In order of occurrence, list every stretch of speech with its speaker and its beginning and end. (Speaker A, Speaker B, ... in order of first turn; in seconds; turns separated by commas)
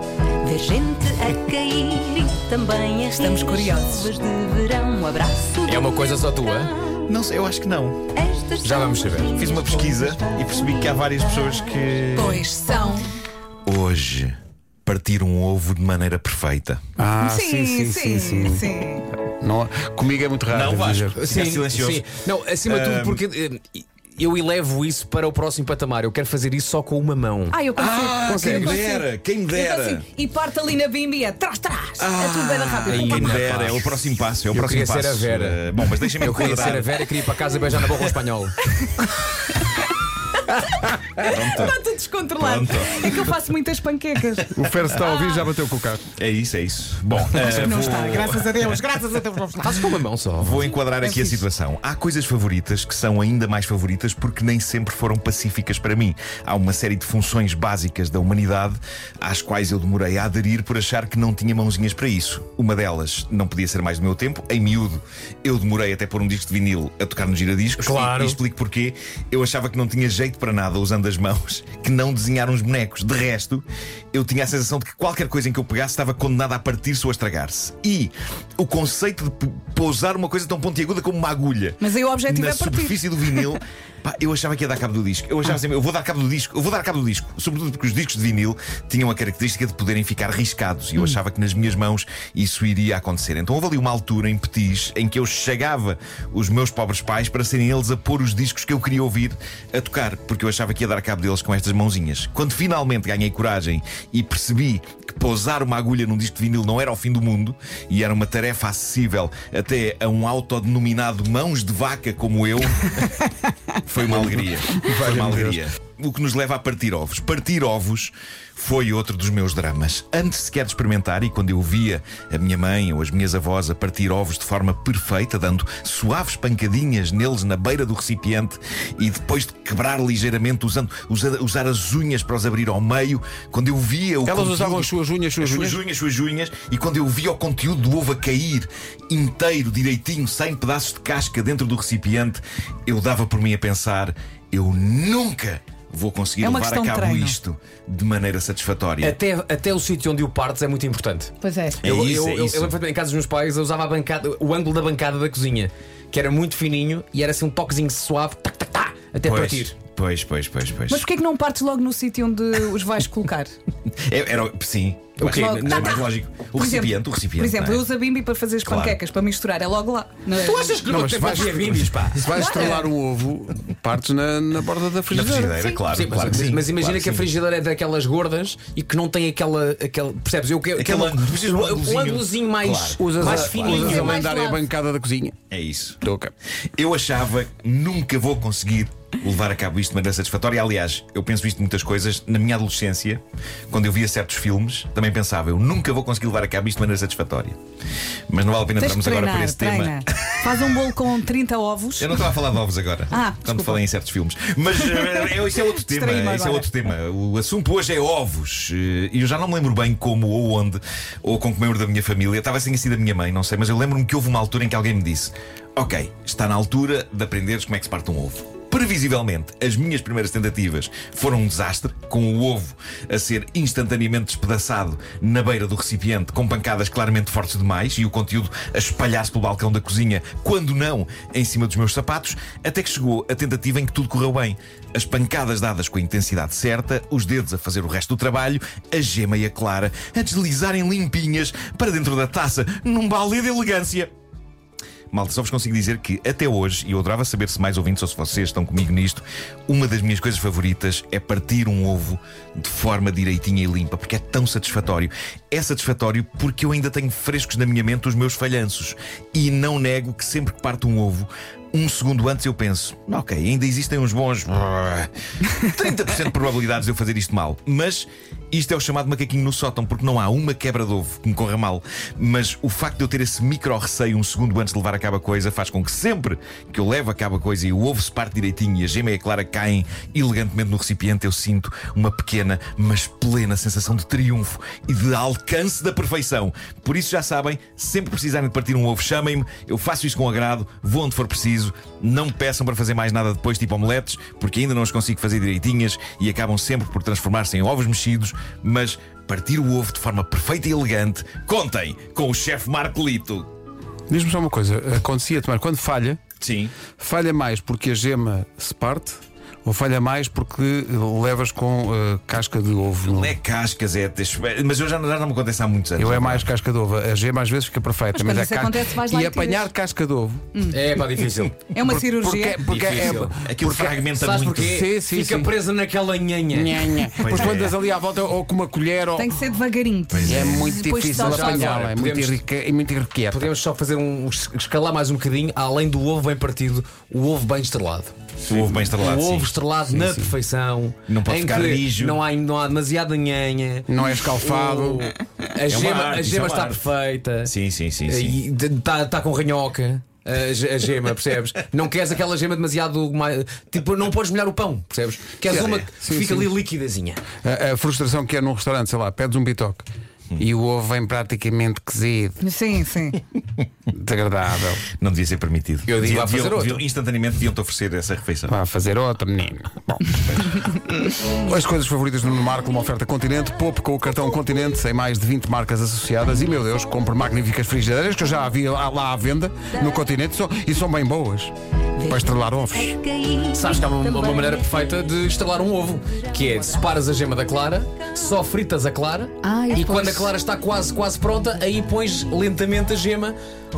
Speaker A: 0.4-6.1, Speaker B: 3.1-4.1, Speaker C: 5.6-6.7, Speaker D: 7.1-8.1, Speaker A: 8.2-10.2, Speaker C: 8.6-9.4, Speaker D: 9.3-12.5, Speaker B: 12.2-13.1, Speaker D: 13.7-16.8, Speaker E: 17.0-21.2, Speaker B: 17.2-19.1, Speaker D: 20.5-22.1, Speaker C: 21.2-27.6, Speaker D: 22.6-23.2, Speaker B: 27.5-33.4, Speaker D: 27.8-30.1, Speaker C: 28.3-28.8, Speaker D: 32.0-37.1, Speaker C: 32.9-35.6, Speaker C: 36.2-38.6, Speaker B: 38.8-39.7, Speaker B: 41.0-45.4, Speaker D: 41.2-41.8, Speaker D: 42.4-43.1, Speaker E: 44.5-46.1, Speaker D: 46.2-48.7, Speaker B: 47.4-49.7, Speaker C: 49.5-50.7, Speaker D: 50.4-113.2, Speaker B: 51.0-51.4, Speaker C: 67.8-68.4, Speaker B: 81.8-83.0, Speaker D: 113.8-149.2, Speaker E: 114.1-115.6, Speaker E: 134.2-135.8, Speaker B: 146.4-147.4, Speaker C: 149.0-159.8, Speaker B: 151.4-151.8, Speaker D: 151.8-152.8, Speaker D: 159.2-161.1, Speaker B: 160.9-163.5, Speaker D: 164.1-167.8, Speaker C: 165.2-166.1, Speaker B: 165.3-170.8, Speaker D: 168.7-169.0, Speaker C: 170.4-172.4, Speaker E: 170.8-175.7, Speaker B: 172.3-172.9, Speaker D: 175.1-177.3, Speaker C: 175.9-184.3, Speaker D: 180.8-183.9, Speaker E: 183.0-185.4, Speaker B: 183.7-184.6, Speaker D: 185.5-186.0, Speaker E: 186.0-186.3, Speaker D: 186.8-197.6, Speaker D: 198.3-200.8, Speaker B: 198.8-202.1, Speaker D: 202.0-244.1, Speaker B: 203.1-203.8, Speaker B: 204.8-206.7, Speaker D: 245.1-303.5, Speaker E: 304.1-306.2, Speaker D: 306.4-306.7, Speaker E: 307.0-313.4, Speaker D: 313.1-316.5, Speaker E: 316.0-320.4, Speaker B: 318.1-319.7, Speaker B: 320.6-320.8, Speaker C: 320.7-321.6, Speaker B: 321.7-322.6, Speaker E: 321.8-324.0, Speaker C: 322.6-323.3, Speaker D: 323.4-324.8, Speaker C: 324.2-327.0, Speaker E: 324.6-325.5, Speaker E: 326.5-329.4, Speaker D: 327.1-327.7, Speaker B: 329.2-331.9, Speaker D: 330.1-330.8, Speaker E: 330.2-333.5, Speaker C: 331.2-332.4, Speaker C: 333.3-347.5, Speaker D: 338.5-339.5, Speaker E: 339.9-340.3, Speaker D: 341.1-342.2, Speaker E: 343.9-345.1, Speaker D: 345.7-346.9, Speaker D: 347.4-348.4, Speaker C: 348.1-357.2, Speaker E: 355.5-356.5, Speaker E: 357.4-359.9, Speaker E: 360.4-362.4, Speaker B: 362.4-363.2, Speaker E: 363.9-364.8, Speaker D: 365.0-368.5, Speaker C: 365.9-366.8, Speaker E: 368.5-370.7, Speaker E: 371.2-383.0, Speaker A: 383.2-384.4, Speaker C: 383.5-393.4, Speaker B: 389.4-390.3